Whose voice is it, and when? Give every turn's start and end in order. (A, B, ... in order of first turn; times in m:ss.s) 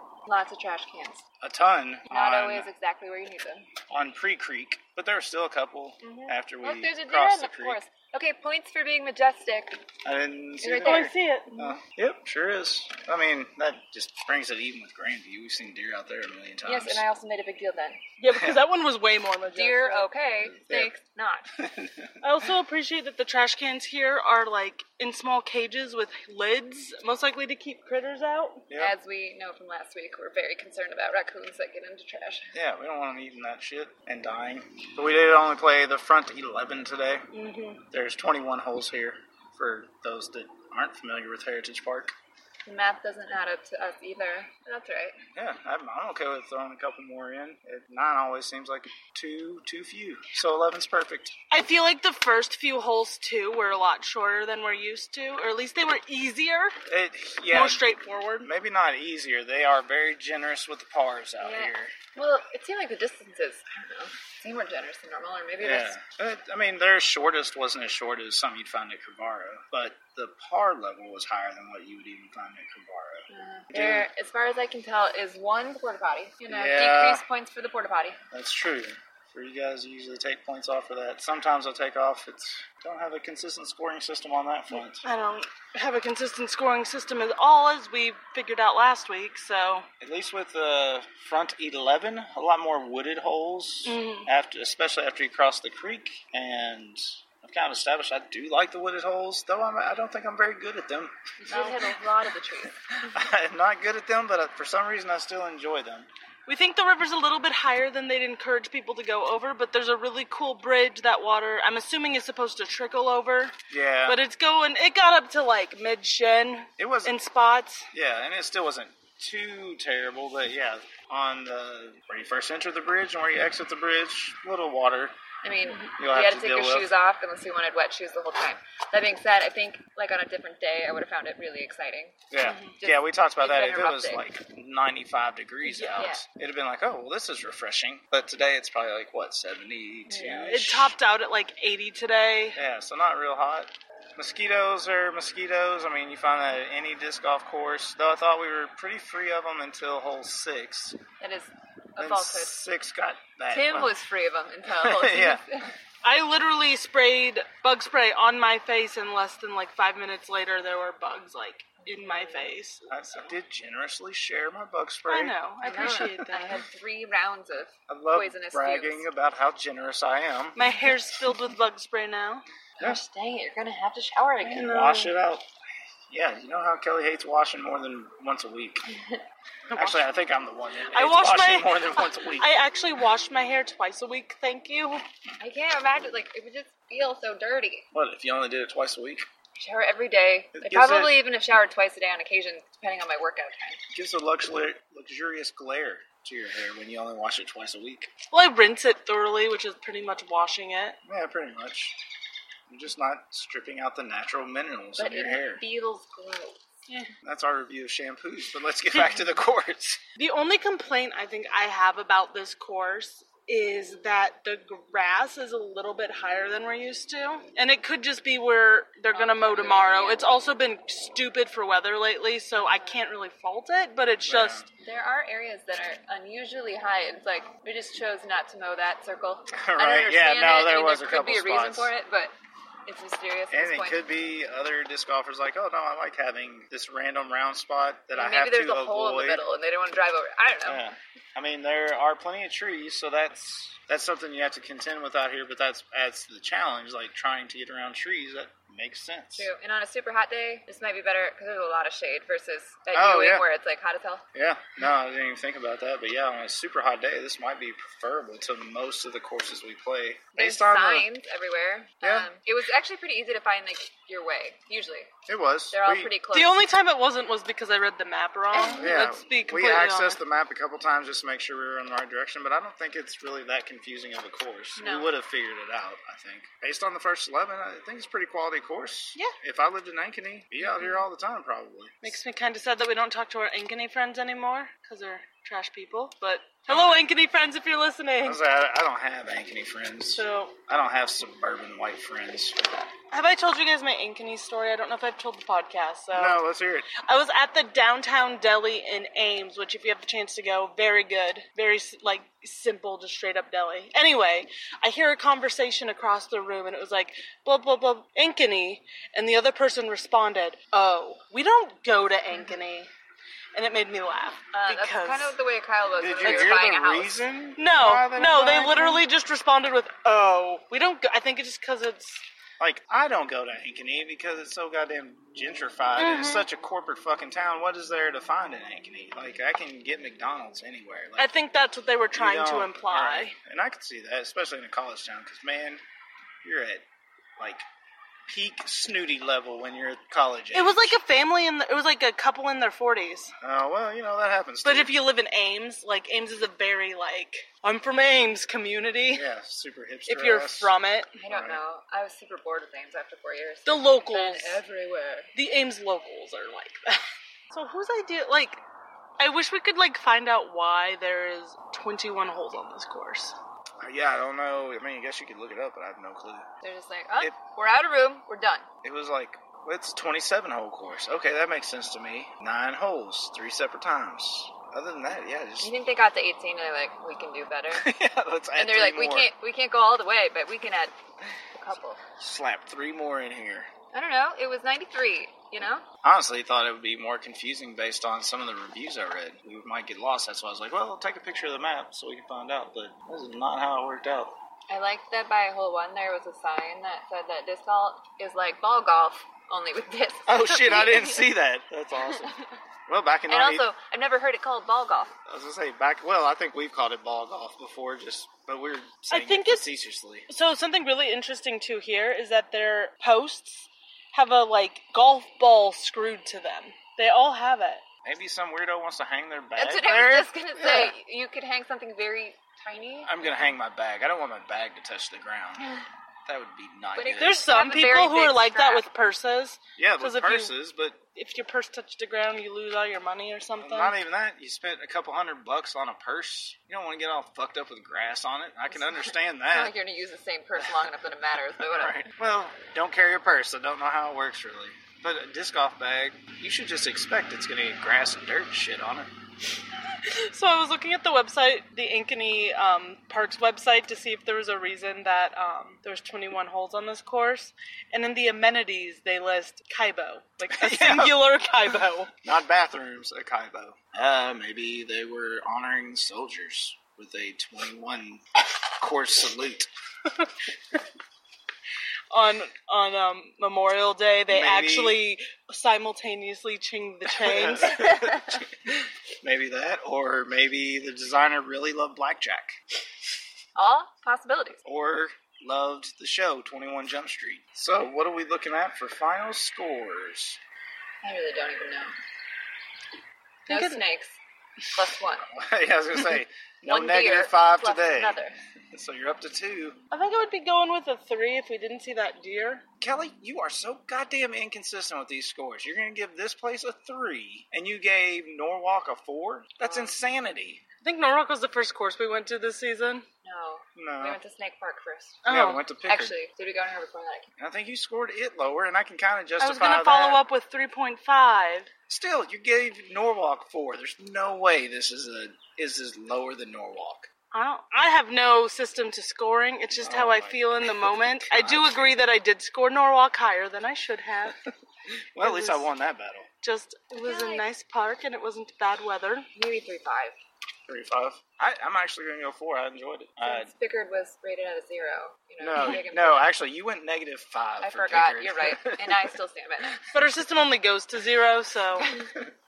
0:00.3-0:01.2 A
0:01.4-0:02.7 B
0:02.1-0:03.7 A
0:03.9-0:07.8 B
0:06.0-0:09.8 A
0:10.0-0:17.0 B
0:10.6-0:11.8 A
0:10.8-0:11.5 C
0:16.6-0:18.0 A
0:18.2-0:20.1 C
0:18.3-0:18.6 B
0:19.5-0:21.5 A
0:20.6-0:20.9 B
0:21.6-0:22.1 B
0:22.2-0:28.6 C
0:28.8-0:32.5 A
0:32.5-0:37.3 B
0:37.3-0:37.8 C
0:37.9-0:42.1 B
0:42.7-0:45.2 A
0:45.4-0:51.3 B
0:51.5-0:56.7 C
0:56.9-0:57.8 B
0:57.5-0:58.5 C
0:58.4-1:01.9 B
1:01.4-1:06.0 A
1:05.6-1:14.1 B
1:13.3-1:18.2 A
1:16.5-1:17.2 B
1:18.3-1:25.0 B
1:25.0-1:29.9 C
1:30.0-1:41.1 B
1:33.9-1:34.3 C
1:41.5-1:41.7 C
1:41.5-1:42.7 A
1:43.1-1:46.1 B
1:46.5-1:53.5 C
1:53.7-1:54.2 B
1:54.1-1:57.9 C
1:56.8-1:57.2 B
1:57.9-2:05.1 B
2:05.4-2:12.2 A
2:05.7-2:05.9 C
2:06.0-2:06.9 B
2:12.3-2:21.0 B
2:12.4-2:12.8 C
2:12.8-2:14.2 A
2:15.6-2:16.1 C
2:16.0-2:16.2 A
2:20.2-2:22.6 C
2:22.6-2:31.0 B
2:31.2-2:32.5 A
2:32.0-2:34.0 B
2:33.5-2:35.7 A
2:34.7-2:35.4 B
2:36.0-2:43.3 C
2:41.8-2:42.5 A
2:42.9-2:45.4 B
2:45.1-2:46.6 C
2:45.6-2:49.1 A
2:47.9-2:50.6 B
2:50.6-2:52.4 C
2:52.8-2:55.1 A
2:54.4-2:55.5 B
2:56.1-2:58.9 B
2:59.0-2:59.2 A
2:59.7-3:00.1 C
2:59.8-3:02.6 B
3:00.9-3:05.0 C
3:05.4-3:07.9 A
3:07.9-3:09.3 B
3:09.6-3:13.8 A
3:10.6-3:11.2 B
3:13.9-3:18.1 B
3:18.3-3:21.0 C
3:21.0-3:22.0 B
3:22.7-3:25.6 B
3:25.0-3:26.6 A
3:27.2-3:30.0 B
3:30.2-3:44.7 C
3:39.1-3:40.3 A
3:42.5-3:43.1 A
3:44.2-3:44.7 B
3:44.8-3:52.3 A
3:49.5-3:51.9 B
3:52.9-3:54.1 A
3:53.5-3:59.4 B
3:58.1-4:00.9 A
4:00.7-4:09.5 B
4:09.4-4:14.2 A
4:12.9-4:13.5 B
4:14.3-4:21.1 B
4:20.3-4:25.1 A
4:22.0-4:22.3 B
4:25.3-4:26.2 B
4:25.7-4:26.7 A
4:26.3-4:30.2 C
4:28.5-4:29.0 A
4:28.7-4:42.1 B
4:34.8-4:35.1 A
4:40.7-4:41.0 C
4:42.0-4:48.4 C
4:48.2-4:52.6 B
4:50.2-4:50.6 C
4:53.1-4:56.5 C
4:56.1-4:56.9 B
4:57.0-5:12.9 C
5:13.5-5:15.4 C
5:14.5-5:17.3 A
5:15.9-5:19.0 B
5:17.6-5:22.2 C
5:22.6-5:31.3 B
5:26.0-5:26.5 C
5:31.2-5:33.4 C
5:32.1-5:35.8 B
5:36.4-5:36.8 B
5:37.4-5:37.6 B
5:38.3-5:41.0 B
5:40.5-5:43.3 C
5:43.4-5:45.0 B
5:44.6-5:49.3 C
5:49.1-5:50.8 B
5:50.1-5:51.1 C
5:51.2-5:55.3 A
5:51.3-5:51.6 B
5:53.7-5:54.6 C
5:55.4-5:58.6 C
5:59.2-6:03.4 C
6:03.8-6:06.5 B
6:06.6-6:08.7 A
6:08.8-6:15.7 B
6:15.6-6:17.9 A
6:17.7-6:19.3 B
6:18.6-6:21.0 A
6:21.6-6:22.0 A
6:22.2-6:23.7 B
6:23.9-6:25.8 A
6:26.0-6:34.4 B
6:34.7-6:41.3 A
6:40.3-6:43.7 B
6:43.3-6:45.2 A
6:45.3-6:50.3 B
6:49.1-6:49.7 C
6:50.3-6:57.8 C
6:58.0-7:00.9 B
6:59.6-7:03.5 A
7:03.0-7:07.5 B
7:07.0-7:08.9 A
7:07.2-7:10.6 C
7:09.8-7:11.0 B
7:11.2-7:14.0 C
7:13.6-7:19.8 B
7:18.7-7:22.1 A
7:20.6-7:20.9 B
7:21.6-7:29.1 B
7:30.0-7:42.1 C
7:40.5-7:41.2 B
7:42.2-7:48.2 B
7:48.8-7:49.7 B
7:52.1-7:57.8 C
7:54.3-7:55.0 B
7:57.2-8:02.6 B
8:03.6-8:04.6 A
8:04.6-8:10.4 B
8:11.0-8:12.0 A
8:13.5-8:13.8 C
8:13.5-8:14.2 A
8:14.7-8:15.2 A
8:15.3-8:18.2 B
8:16.6-8:18.4 A
8:18.7-8:19.8 B
8:19.9-8:22.6 C
8:22.8-8:30.6 B
8:29.6-8:29.9 C
8:30.8-8:33.0 C
8:33.2-8:35.2 A
8:33.8-8:34.2 B
8:35.2-8:35.6 C
8:35.3-8:36.2 B
8:35.8-8:37.3 A
8:37.4-8:40.2 B
8:39.4-8:41.7 C
8:41.9-8:47.1 B
8:47.3-8:54.4 C
8:49.7-8:51.8 B
8:55.2-8:56.3 B
8:55.2-8:55.7 C
8:56.4-8:59.3 C
8:57.0-8:57.5 A
8:59.4-9:00.2 A
9:00.7-9:03.5 B
9:03.2-9:06.3 A
9:05.4-9:09.2 B
9:07.6-9:09.8 A
9:09.9-9:11.9 C